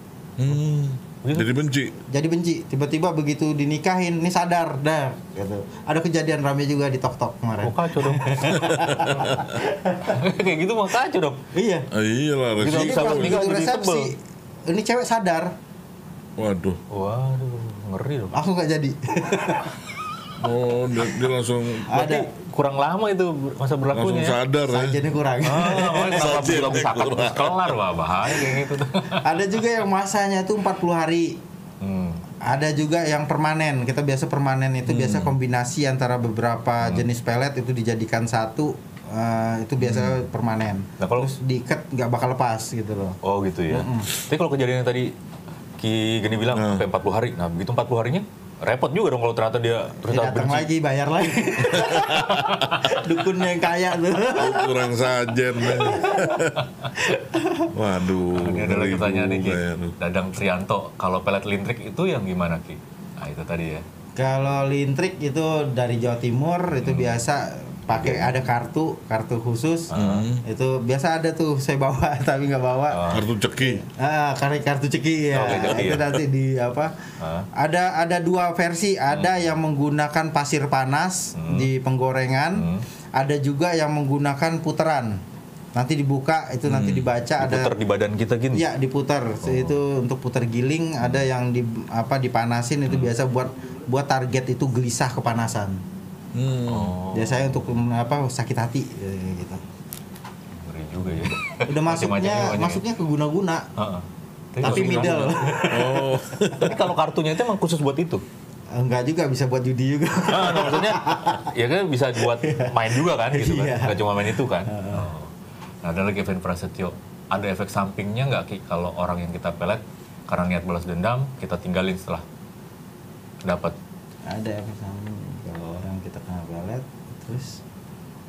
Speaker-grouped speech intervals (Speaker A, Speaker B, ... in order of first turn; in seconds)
Speaker A: 0.4-1.9, 8.6-9.4, 11.9-13.4, 16.4-16.8, 20.4-21.9, 23.9-25.0, 26.1-27.7, 34.9-35.3, 39.8-40.1, 46.5-46.9, 51.8-52.5, 54.4-56.5, 57.7-59.9, 69.9-70.4, 73.1-73.8, 96.3-96.9, 104.6-106.8
Speaker B: 1.2-1.5, 7.6-8.6, 10.1-11.4, 12.6-14.1, 16.9-18.4, 21.9-24.4, 25.4-29.2, 31.8-32.2, 36.8-37.1, 41.0-41.3, 43.2-45.1, 45.8-50.7, 52.6-52.9, 58.3-63.9, 66.8-67.2, 67.9-68.4, 69.9-70.2, 72.9-73.2, 75.3-76.1, 77.2-77.5, 79.1-79.5, 81.4-81.7, 82.6-82.8, 86.7-88.6, 89.4-89.8, 96.7-97.6, 100.5-102.8, 103.8-105.8, 106.6-108.2, 110.3-122.2, 123.4-123.8
Speaker C: 2.1-10.2, 11.5-11.9, 12.6-14.2, 14.7-15.6, 18.3-19.8, 21.9-22.3, 24.7-26.8, 29.1-31.4, 32.4-43.2, 43.7-44.1, 50.0-57.7, 64.2-69.9, 70.4-77.0, 77.5-85.2, 85.7-87.7, 88.5-95.8, 97.1-99.6, 101.7-103.7, 104.6-106.1, 108.7-111.4, 112.3-115.1, 124.2-127.6